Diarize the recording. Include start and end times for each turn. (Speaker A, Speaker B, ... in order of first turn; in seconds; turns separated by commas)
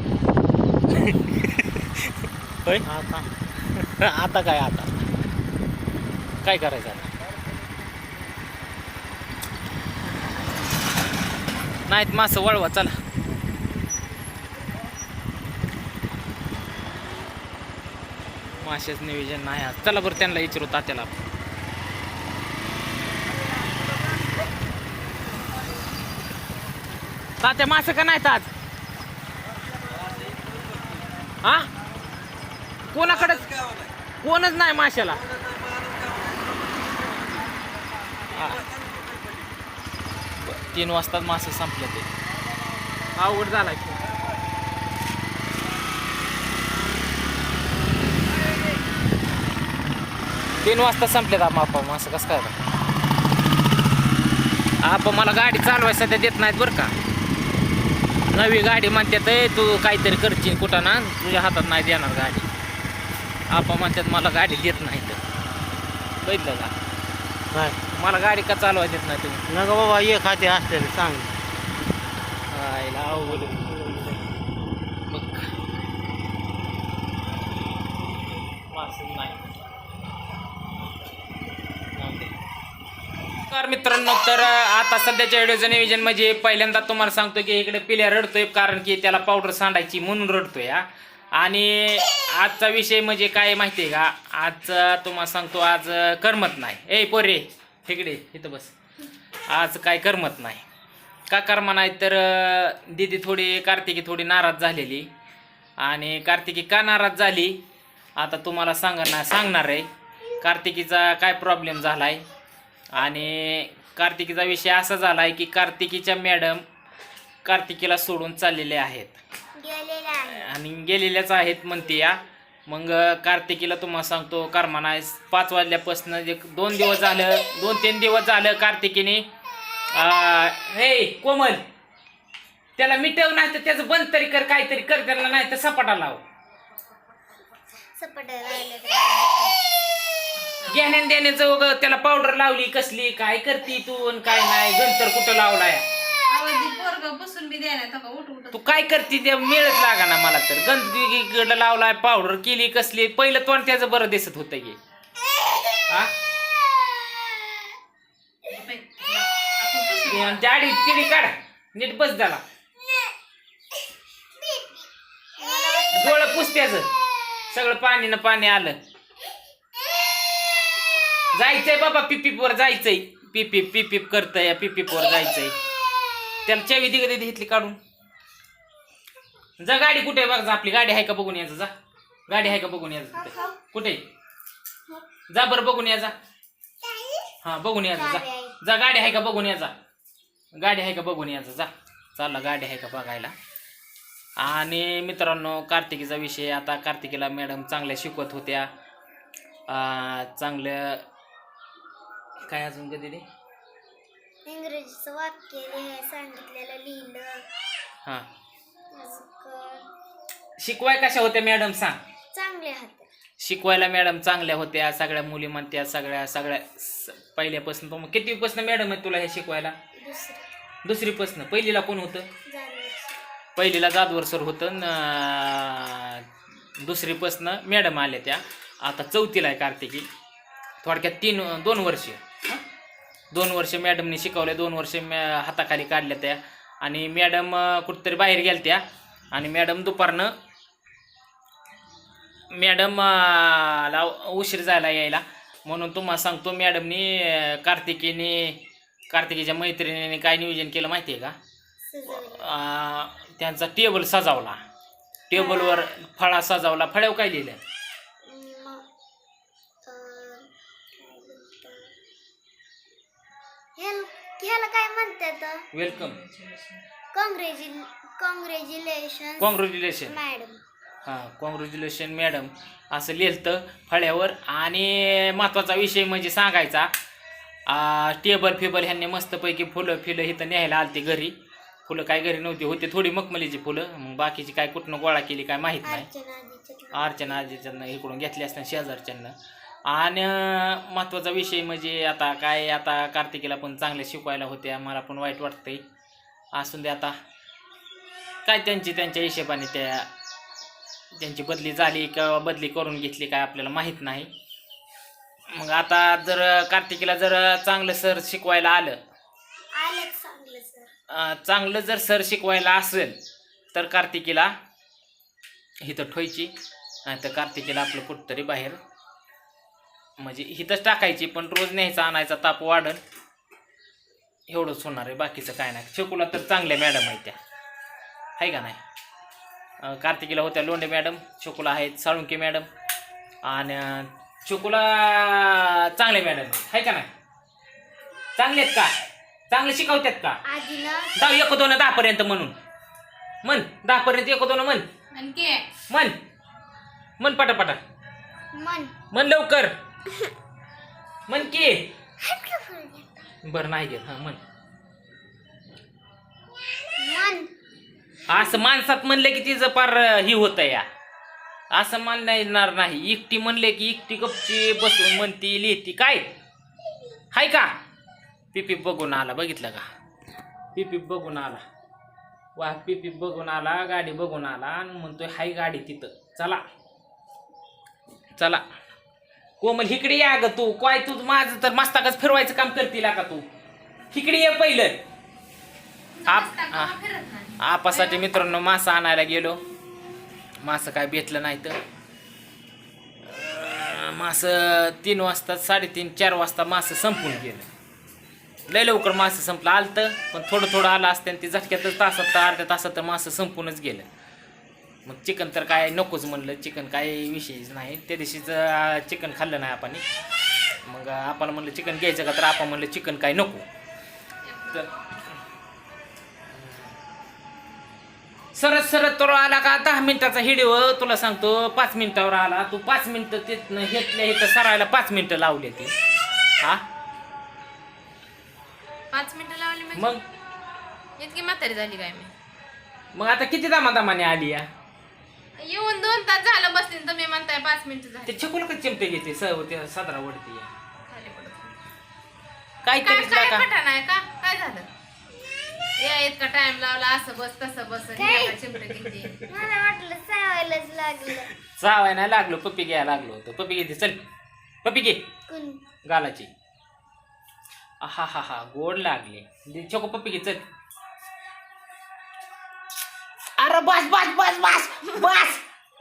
Speaker A: 0.9-1.9, Speaker B: 2.9-3.3, Speaker A: 3.6-5.0, Speaker A: 6.4-7.1, Speaker A: 11.9-13.0, Speaker A: 18.6-21.2, Speaker A: 27.4-28.5, Speaker A: 31.4-31.7, Speaker A: 32.9-33.5, Speaker A: 34.2-35.2, Speaker A: 38.3-38.6, Speaker A: 40.4-42.1, Speaker A: 43.2-44.0, Speaker A: 50.6-52.6, Speaker A: 54.8-56.9, Speaker A: 58.3-62.5, Speaker A: 63.5-65.2, Speaker A: 66.2-66.7, Speaker B: 67.5-67.8, Speaker A: 67.9-69.4, Speaker B: 69.5-71.3, Speaker A: 72.5-74.2, Speaker B: 73.2-73.7, Speaker A: 75.1-75.5, Speaker A: 78.7-79.4, Speaker A: 81.9-82.3, Speaker A: 83.5-98.7, Speaker A: 99.5-100.7, Speaker A: 101.3-105.1, Speaker A: 105.8-107.6, Speaker A: 108.2-109.9, Speaker A: 110.4-112.2, Speaker A: 112.9-116.6, Speaker A: 117.5-119.2, Speaker C: 119.6-120.5, Speaker A: 120.3-129.3, Speaker A: 129.9-131.6, Speaker A: 132.8-136.2, Speaker C: 138.0-139.6, Speaker D: 140.4-140.9, Speaker A: 140.7-145.8, Speaker D: 146.3-148.9, Speaker A: 148.5-154.8, Speaker D: 158.5-160.4, Speaker A: 160.1-162.4, Speaker C: 165.4-166.4, Speaker A: 165.9-166.9, Speaker A: 167.5-168.8, Speaker A: 171.3-175.6, Speaker A: 176.4-177.8, Speaker A: 179.6-181.7, Speaker A: 182.3-184.0, Speaker C: 183.2-183.6, Speaker A: 185.3-186.2, Speaker C: 186.8-187.3, Speaker A: 187.4-189.7, Speaker C: 187.9-188.6, Speaker A: 190.5-193.3, Speaker A: 194.4-198.7, Speaker A: 199.7-201.0, Speaker A: 202.4-203.3, Speaker C: 204.5-207.5, Speaker C: 208.9-209.9, Speaker A: 210.6-212.0, Speaker C: 212.3-213.1, Speaker A: 213.4-219.8, Speaker C: 219.9-220.5, Speaker A: 220.8-222.3, Speaker C: 222.5-223.2, Speaker A: 223.6-226.3, Speaker A: 226.8-230.1, Speaker A: 230.8-232.2, Speaker A: 233.3-240.3, Speaker A: 242.5-251.4, Speaker C: 251.8-252.5, Speaker A: 252.1-254.6, Speaker A: 255.3-257.6, Speaker C: 255.3-255.9, Speaker C: 258.2-258.9, Speaker C: 259.9-261.9, Speaker C: 263.8-265.7, Speaker A: 265.7-266.2, Speaker D: 265.9-266.8, Speaker C: 267.1-270.6, Speaker A: 269.4-270.2, Speaker A: 271.0-276.9, Speaker A: 277.7-281.3, Speaker A: 281.9-286.1, Speaker C: 285.8-287.4, Speaker A: 286.9-289.4, Speaker A: 289.9-295.8, Speaker A: 296.6-297.2, Speaker A: 298.4-300.1, Speaker A: 301.2-304.3, Speaker A: 305.5-309.0, Speaker C: 309.8-310.9, Speaker A: 311.1-313.2, Speaker A: 313.7-314.5, Speaker A: 315.8-316.5, Speaker A: 317.1-318.8, Speaker A: 320.2-323.0, Speaker A: 324.5-327.4, Speaker A: 328.4-328.8, Speaker A: 329.8-332.7, Speaker A: 333.4-337.1, Speaker A: 338.4-338.9, Speaker A: 339.5-340.4, Speaker C: 340.5-341.2, Speaker A: 341.2-342.6, Speaker A: 343.4-344.9, Speaker D: 345.1-345.7, Speaker A: 345.9-346.2, Speaker A: 347.2-347.8, Speaker C: 348.5-348.9, Speaker A: 349.1-349.7, Speaker A: 351.3-351.9, Speaker C: 352.2-353.2, Speaker A: 353.4-354.4, Speaker C: 357.0-357.5, Speaker A: 358.3-360.9, Speaker A: 361.7-366.3, Speaker A: 367.3-367.8, Speaker A: 368.5-369.9, Speaker A: 370.8-371.6, Speaker A: 372.6-376.6, Speaker A: 378.4-378.6, Speaker A: 379.6-383.5, Speaker A: 384.1-385.0, Speaker D: 386.2-388.3, Speaker A: 386.3-387.0, Speaker A: 387.6-389.6, Speaker A: 390.6-391.8, Speaker A: 393.2-397.7, Speaker A: 398.7-404.1, Speaker A: 405.1-410.0, Speaker A: 410.8-413.7, Speaker D: 414.4-414.9, Speaker A: 416.6-416.9, Speaker A: 418.5-425.9, Speaker D: 429.1-430.1, Speaker A: 429.9-430.2, Speaker D: 431.2-432.3, Speaker A: 433.1-434.7, Speaker D: 435.6-438.6, Speaker A: 438.3-440.7, Speaker D: 441.0-441.8, Speaker A: 442.8-443.6, Speaker D: 443.0-444.9, Speaker D: 446.0-449.4, Speaker C: 448.2-448.6, Speaker C: 449.5-451.5, Speaker A: 451.7-454.2, Speaker A: 454.8-455.3, Speaker C: 455.5-455.8, Speaker A: 456.1-456.5, Speaker A: 458.0-460.6, Speaker A: 463.6-465.6